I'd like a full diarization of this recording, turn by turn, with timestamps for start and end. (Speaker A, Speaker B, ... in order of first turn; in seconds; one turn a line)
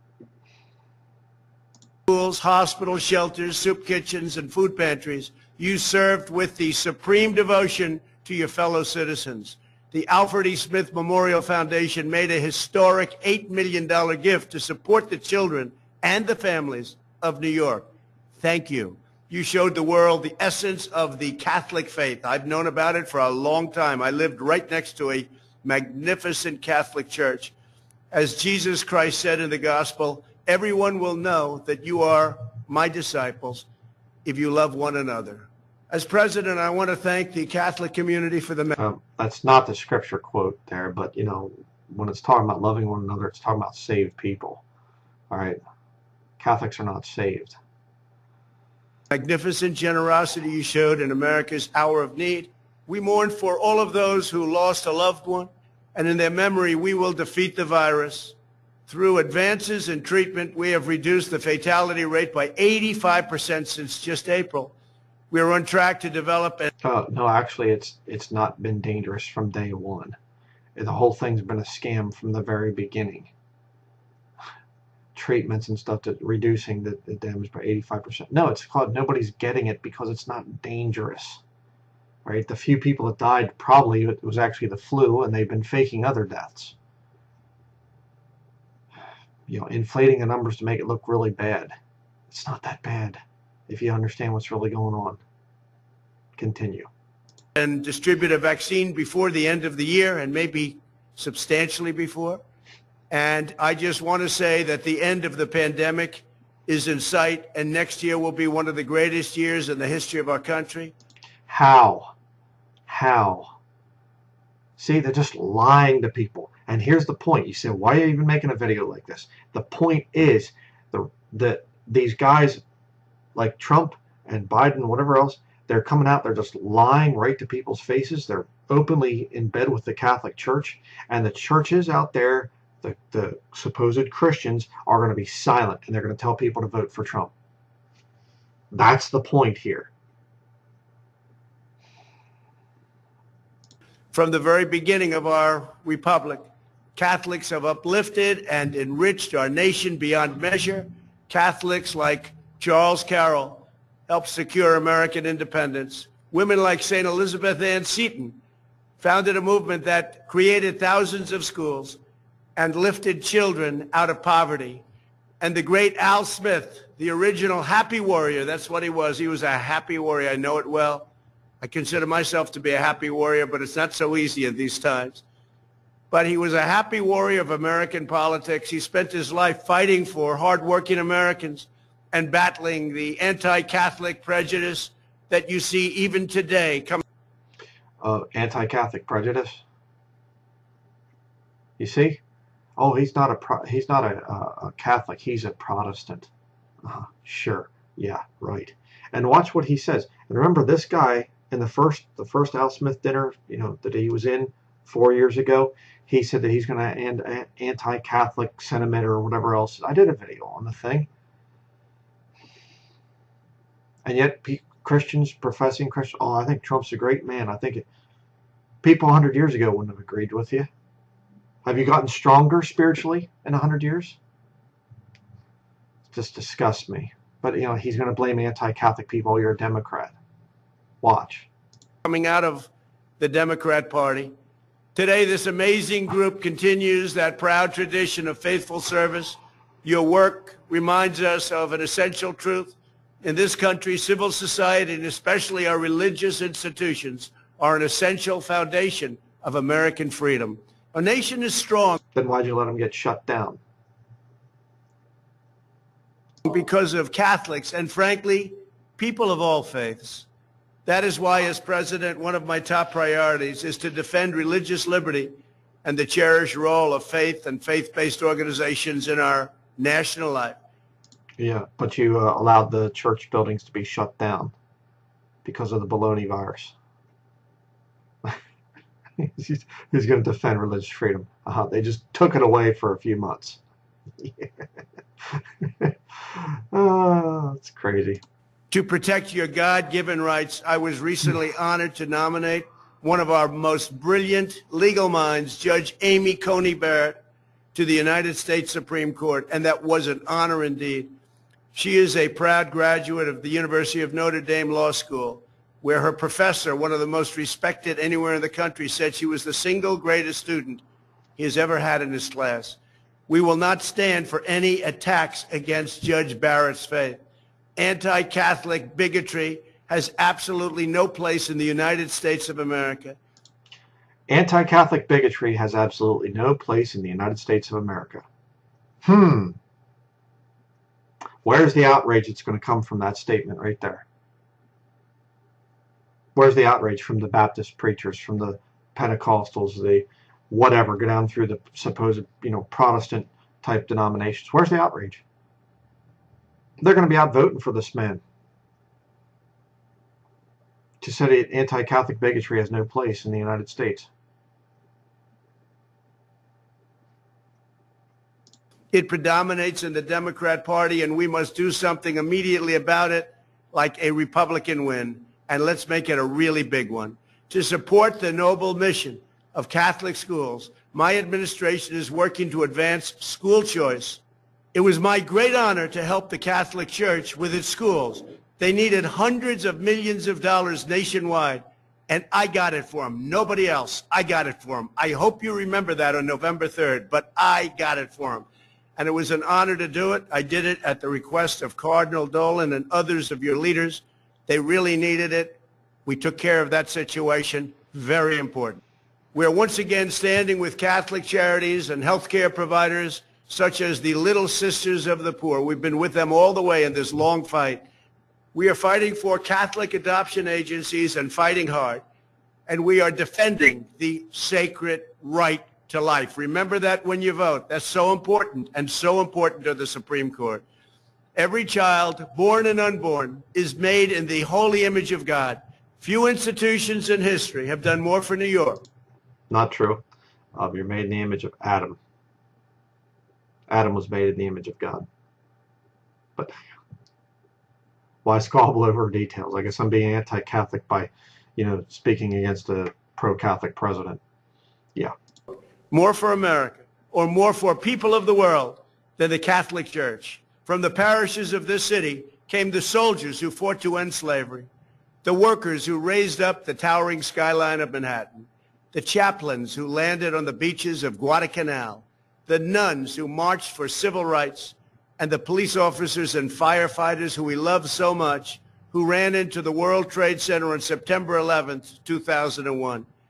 Speaker A: 2.1-17.9
Speaker A: 18.4-27.5
Speaker A: 28.1-33.7
Speaker A: 34.2-38.8
Speaker B: 38.8-44.6
Speaker B: 45.3-45.6
Speaker B: 46.4-47.6
Speaker A: 49.1-58.4
Speaker A: 58.9-64.7
Speaker A: 65.3-66.7
Speaker B: 66.8-70.2
Speaker B: 70.8-73.3
Speaker B: 75.2-81.4
Speaker B: 82.2-86.8
Speaker B: 89.5-91.7
Speaker B: 92.3-95.2
Speaker B: 96.4-96.9
Speaker A: 97.6-102.4
Speaker A: 103.1-110.9
Speaker B: 111.5-112.1
Speaker B: 112.9-113.6
Speaker B: 114.8-122.6
Speaker B: 123.3-137.3
Speaker B: 138.7-139.9
Speaker A: 144.1-146.4
Speaker A: 147.0-158.4
Speaker A: 159.0-162.0
Speaker A: 162.6-164.8
Speaker A: 165.4-171.1
Speaker A: 171.6-175.2
Speaker A: 176.1-187.0
Speaker B: 188.0-189.6
Speaker B: 191.8-192.2
Speaker B: 192.8-196.3
Speaker B: 196.8-211.1
Speaker B: 214.1-217.8
Speaker B: 218.8-220.7
Speaker B: 221.7-224.2
Speaker B: 226.1-230.1
Speaker B: 231.0-231.5
Speaker A: 232.1-232.7
Speaker A: 233.2-234.3
Speaker A: 234.9-252.0
Speaker B: 252.2-253.6
Speaker A: 256.4-260.3
Speaker A: 260.9-270.6
Speaker B: 271.4-274.5
Speaker B: 275.4-276.8
Speaker B: 279.2-283.6
Speaker B: 284.2-284.5
Speaker B: 285.3-288.2
Speaker A: 288.7-297.2
Speaker A: 297.8-301.1
Speaker A: 301.7-310.8
Speaker A: 311.4-317.2
Speaker A: 317.8-323.2
Speaker B: 324.3-328.2
Speaker B: 329.0-329.6
Speaker B: 331.4-334.1
Speaker B: 336.4-345.2
Speaker B: 346.8-348.2
Speaker B: 351.0-354.1
Speaker A: 358.9-374.2
Speaker A: 374.7-398.8
Speaker A: 399.3-407.8
Speaker A: 408.5-412.0
Speaker A: 412.7-420.6
Speaker A: 421.4-428.8
Speaker B: 429.5-430.0
Speaker B: 430.6-432.0
Speaker B: 433.7-435.1
Speaker B: 438.2-444.2
Speaker A: 445.9-454.7
Speaker A: 455.2-473.1